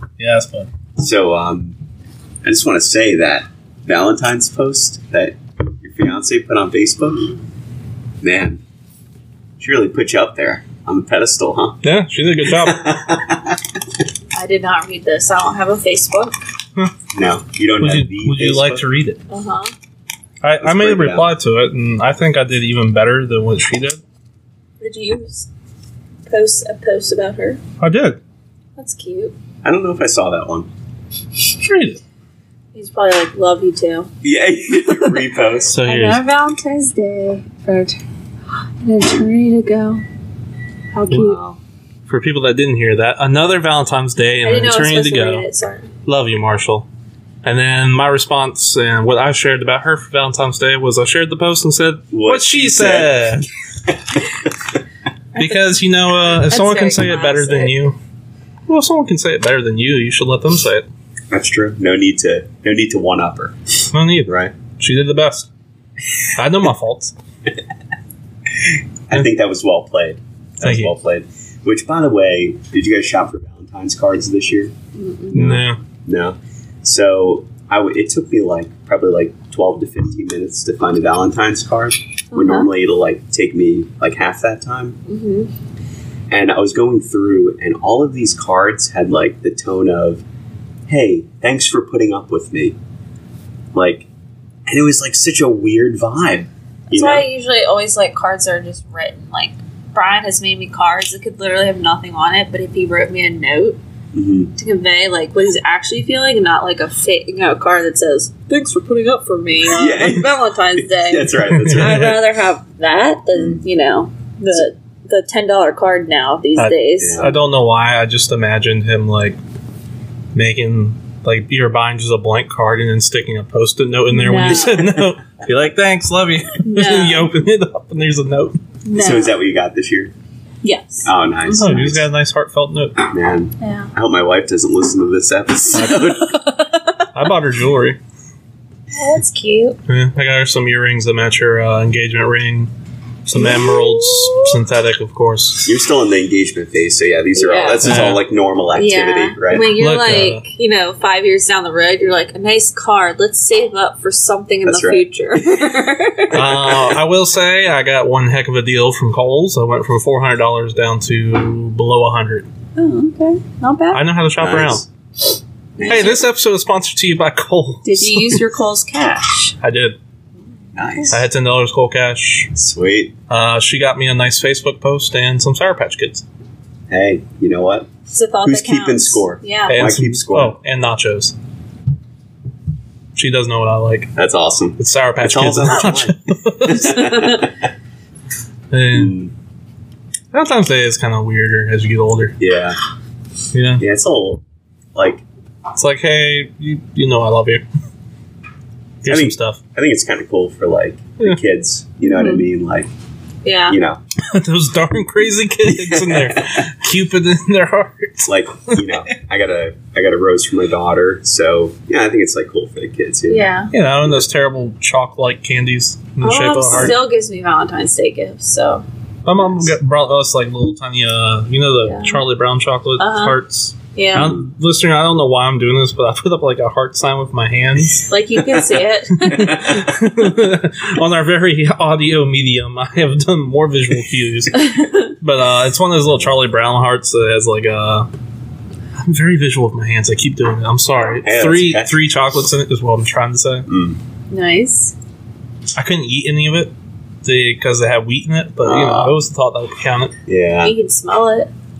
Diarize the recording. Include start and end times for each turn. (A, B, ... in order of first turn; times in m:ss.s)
0:00.2-0:00.7 A
0:01.0-0:01.8 B
0:02.4-0:07.3 B
0:08.2-0:08.6 B
0:09.6-0:11.8 B
0:11.8-0:12.9 A
0:12.5-0:13.6 B
0:14.3-0:16.3 C
0:17.1-0:18.8 B
0:17.8-0:19.2 A
0:19.3-0:19.7 C
0:20.4-0:24.0 A
0:20.6-0:21.3 B
0:24.8-0:25.5 C
0:26.3-0:27.6 C
0:27.8-0:28.2 A
0:28.8-0:29.3 C
0:29.6-0:30.7 B
0:31.6-0:32.0 A
0:32.7-0:34.1 C
0:34.2-0:35.8 B
0:35.7-0:36.2 A
0:35.8-0:38.0 C
0:38.8-0:40.0 C
0:40.9-0:41.4 C
0:41.1-0:41.6 B
0:42.1-0:45.4 A
0:44.4-0:45.9 C
0:46.0-0:46.9 A
0:47.4-0:53.4 A
0:52.1-0:54.5 B
0:55.4-0:58.0 A
0:56.2-0:57.7 C
0:58.7-1:00.8 A
1:01.3-1:03.6 B
1:03.9-1:05.5 A
1:04.2-1:04.5 B
1:06.4-1:07.1 A
1:08.6-1:14.7 B
1:10.6-1:10.9 A
1:14.9-1:15.5 C
1:15.3-1:15.8 A
1:15.3-1:25.0 B
1:22.3-1:22.7 C
1:25.1-1:25.5 C
1:26.3-1:30.2 B
1:30.9-1:32.8 B
1:33.7-1:34.1 B
1:34.7-1:37.3 B
1:36.9-1:43.8 C
1:44.1-1:44.5 B
1:44.6-1:57.3 C
1:49.7-1:52.1 B
1:51.6-1:52.2 A
1:53.4-1:53.6 B
1:56.6-1:59.4 A
1:57.0-1:57.3 B
2:00.3-2:08.6 A
2:04.1-2:04.8 C
2:04.5-2:05.0 B
2:06.6-2:07.3 C
2:08.8-2:09.4 C
2:08.9-2:10.1 B
2:10.6-2:11.1 C
2:11.0-2:12.1 B
2:11.4-2:13.0 A
2:13.1-2:16.3 B
2:13.6-2:13.9 C
2:15.7-2:16.1 A
2:15.8-2:17.0 C
2:17.1-2:18.0 A
2:18.9-2:19.8 C
2:19.9-2:22.7 A
2:23.2-2:25.7 A
2:23.3-2:24.5 C
2:25.6-2:29.7 B
2:27.3-2:28.1 C
2:27.8-2:28.2 A
2:28.7-2:36.5 C
2:29.8-2:30.4 A
2:34.6-2:35.7 B
2:36.3-2:36.9 B
2:36.3-2:42.5 A
2:42.8-2:44.0 C
2:43.9-2:44.8 A
2:44.4-2:44.8 B
2:45.8-2:46.2 B
2:45.8-2:46.2 C
2:45.8-2:48.4 A
2:47.8-2:49.5 C
2:49.6-2:50.0 A
2:50.7-2:51.2 B
2:51.1-2:52.5 A
2:52.5-2:53.1 B
2:53.3-2:56.2 A
2:56.9-2:57.9 B
2:58.1-2:59.8 C
2:58.4-3:00.6 B
2:59.7-3:01.3 A
3:03.1-3:04.1 A
3:04.2-3:07.5 B
3:04.8-3:07.1 A
3:06.9-3:07.5 C
3:08.7-3:09.2 A
3:08.9-3:09.3 B
3:10.3-3:12.4 A
3:12.4-3:12.8 B
3:13.5-3:13.8 A
3:13.8-3:14.4 B
3:14.9-3:15.2 B
3:15.7-3:17.6 A
3:19.0-3:19.6 A
3:19.0-3:22.9 B
3:22.0-3:22.4 C
3:23.4-3:23.8 C
3:23.7-3:24.0 B
3:24.2-3:28.9 A
3:25.7-3:26.6 B
3:28.2-3:33.5 B
3:33.3-3:33.7 C
3:33.7-3:37.0 A
3:36.2-3:38.8 C
3:36.7-3:37.0 B
3:39.2-3:48.0 A
3:41.8-3:42.2 C
3:43.0-3:43.4 C
3:43.9-3:44.4 C
3:48.1-3:49.6 C
3:49.2-3:58.1 A
3:54.5-3:55.1 C
3:59.0-4:03.7 A
4:01.2-4:01.9 B
4:03.7-4:04.0 B
4:04.3-4:04.9 C
4:05.8-4:06.7 A
4:07.2-4:10.1 A
4:08.6-4:09.2 B
4:10.2-4:10.8 B
4:10.6-4:11.5 C